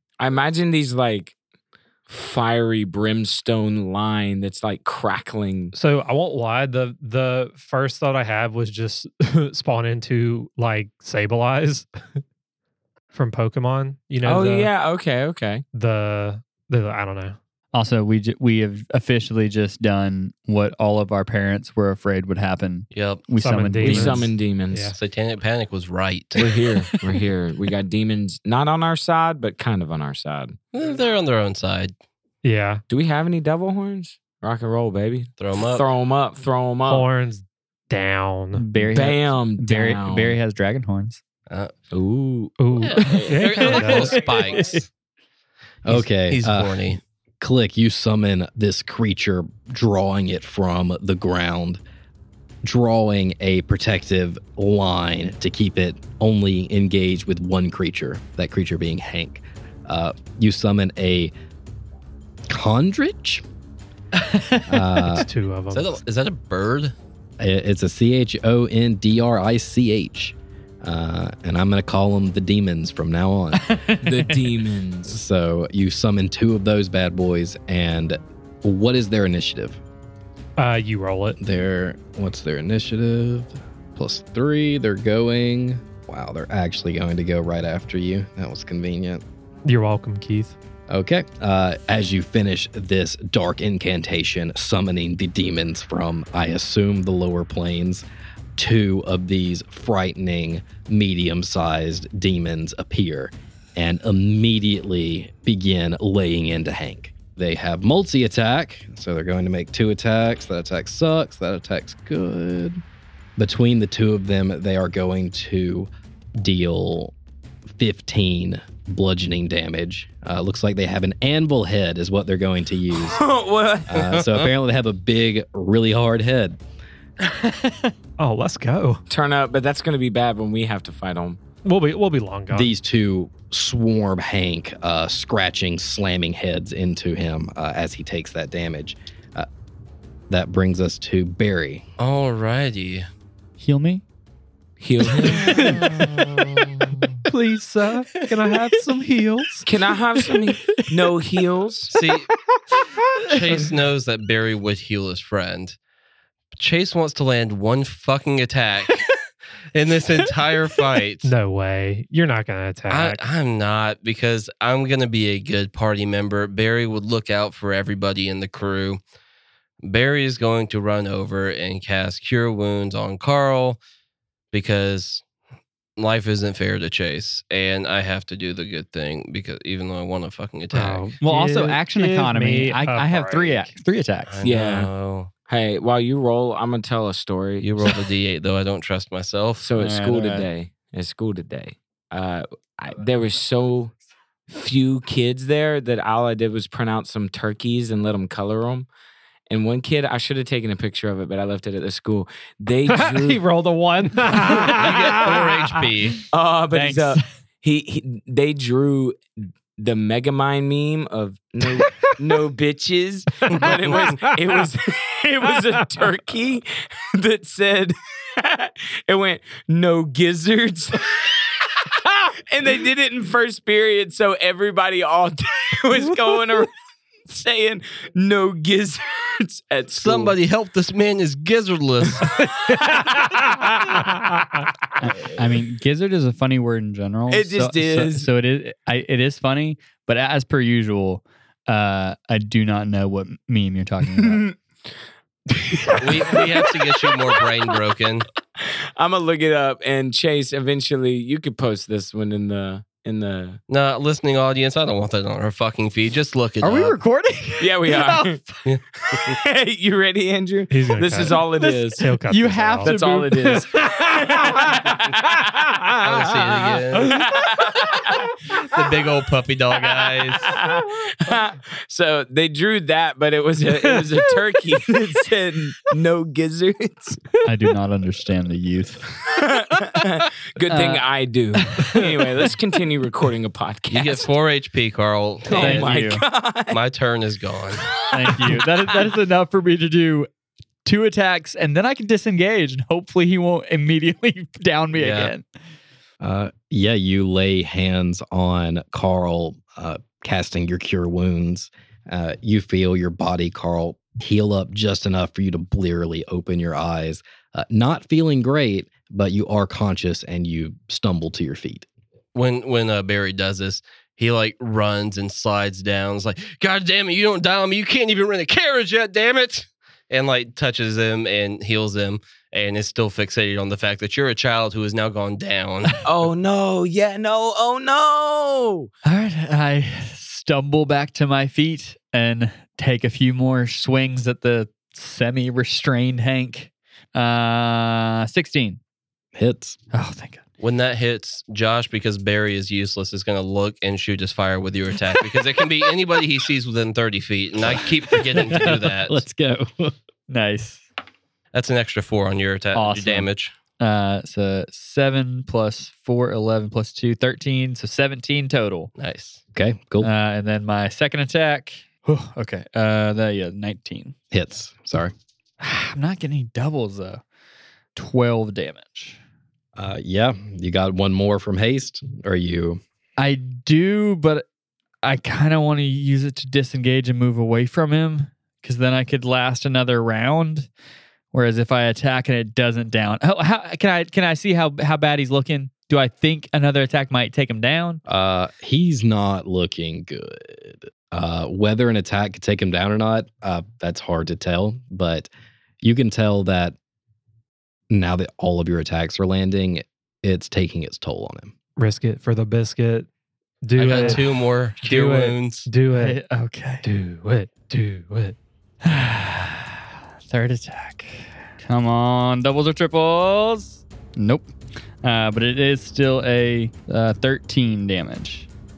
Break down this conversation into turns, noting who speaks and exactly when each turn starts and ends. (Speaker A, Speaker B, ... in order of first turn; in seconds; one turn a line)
Speaker A: 0.2-1.3
Speaker A: 2.1-5.7
Speaker B: 5.7-11.9
Speaker B: 13.1-14.7
Speaker A: 14.2-15.6
Speaker B: 15.7-17.4
Speaker C: 17.7-24.3
Speaker D: 22.9-23.2
Speaker B: 23.4-25.0
Speaker A: 23.8-24.9
Speaker D: 24.9-26.5
Speaker A: 26.4-30.6
Speaker D: 30.7-31.9
Speaker B: 32.4-32.8
Speaker A: 32.9-37.1
Speaker D: 35.4-35.9
Speaker B: 36.8-38.6
Speaker C: 38.5-41.2
Speaker A: 38.8-40.4
Speaker A: 41.9-44.1
Speaker B: 42.6-44.2
Speaker D: 42.8-44.8
Speaker C: 43.6-44.8
Speaker E: 45.8-51.8
Speaker D: 45.9-47.0
Speaker E: 52.6-61.3
Speaker E: 62.5-63.4
Speaker C: 64.2-65.0
Speaker E: 64.7-65.3
Speaker B: 65.0-66.0
Speaker D: 65.7-66.9
Speaker E: 67.4-73.6
Speaker C: 73.7-74.1
Speaker A: 74.0-75.1
Speaker E: 75.1-79.8
Speaker B: 80.6-81.4
Speaker E: 81.4-89.2
Speaker B: 89.6-90.5
Speaker E: 90.9-98.0
Speaker E: 98.6-112.8
Speaker E: 113.4-117.1
Speaker E: 117.7-123.2
Speaker A: 122.9-123.9
Speaker E: 123.9-126.6
Speaker D: 123.9-124.5
Speaker C: 127.2-127.9
Speaker B: 128.2-129.0
Speaker A: 129.1-131.4
Speaker B: 131.6-132.7
Speaker E: 132.5-139.5
Speaker E: 140.3-141.8
Speaker D: 142.0-143.1
Speaker C: 143.6-144.0
Speaker A: 144.8-145.7
Speaker C: 145.3-146.8
Speaker B: 145.4-145.9
Speaker D: 145.5-146.4
Speaker B: 147.2-149.7
Speaker C: 148.2-148.7
Speaker A: 149.6-151.9
Speaker D: 151.9-152.3
Speaker D: 153.2-155.8
Speaker D: 156.6-159.1
Speaker D: 159.7-161.3
Speaker B: 161.2-163.2
Speaker D: 162.9-169.0
Speaker D: 169.8-173.8
Speaker D: 174.5-175.2
Speaker D: 176.0-181.1
Speaker B: 180.7-183.7
Speaker C: 181.2-184.4
Speaker D: 184.3-185.3
Speaker A: 184.4-184.9
Speaker A: 185.5-187.9
Speaker D: 187.6-189.7
Speaker A: 189.6-193.9
Speaker C: 189.8-190.5
Speaker A: 194.5-198.9
Speaker A: 199.5-203.4
Speaker B: 202.9-205.9
Speaker D: 204.6-206.2
Speaker A: 206.3-226.7
Speaker C: 206.7-207.2
Speaker D: 213.5-214.0
Speaker A: 227.2-230.4
Speaker D: 229.9-232.4
Speaker A: 232.2-234.1
Speaker B: 233.0-233.5
Speaker A: 234.9-235.4
Speaker C: 235.0-244.4
Speaker A: 237.3-238.3
Speaker A: 244.1-244.6
Speaker A: 245.6-247.1
Speaker D: 246.0-248.2
Speaker A: 248.6-253.6
Speaker D: 253.7-257.0
Speaker C: 256.6-258.6
Speaker A: 257.6-258.4
Speaker A: 259.1-262.1
Speaker B: 260.7-262.9
Speaker C: 261.2-263.6
Speaker A: 262.8-268.8
Speaker B: 263.5-264.9
Speaker D: 266.0-267.3
Speaker D: 268.5-270.5
Speaker A: 269.9-277.4
Speaker C: 277.4-279.2
Speaker A: 279.3-284.3
Speaker C: 280.7-281.0
Speaker C: 281.6-282.1
Speaker D: 283.9-287.9
Speaker A: 285.4-286.8
Speaker C: 285.5-286.2
Speaker A: 287.8-288.7
Speaker C: 288.1-290.3
Speaker C: 290.8-295.4
Speaker D: 294.9-295.3
Speaker E: 296.2-311.9
Speaker D: 312.3-326.0
Speaker A: 326.0-328.9
Speaker C: 329.0-338.8
Speaker E: 339.4-339.8
Speaker C: 339.9-340.4
Speaker D: 340.6-349.2
Speaker E: 348.1-349.9
Speaker C: 350.3-350.8
Speaker D: 351.5-353.5
Speaker C: 352.7-353.3
Speaker C: 353.8-358.9
Speaker D: 359.0-359.4
Speaker E: 359.5-360.1
Speaker C: 360.0-364.1
Speaker E: 364.3-365.1
Speaker C: 365.6-367.2
Speaker C: 367.9-369.2
Speaker E: 369.8-372.8
Speaker C: 373.2-374.5
Speaker C: 375.0-380.7
Speaker C: 381.3-388.0
Speaker E: 388.1-395.3
Speaker E: 395.8-396.8
Speaker E: 397.9-401.5
Speaker B: 401.8-403.1
Speaker B: 403.6-406.2
Speaker D: 403.8-405.7
Speaker C: 405.9-406.8
Speaker B: 406.8-408.4
Speaker C: 408.8-418.5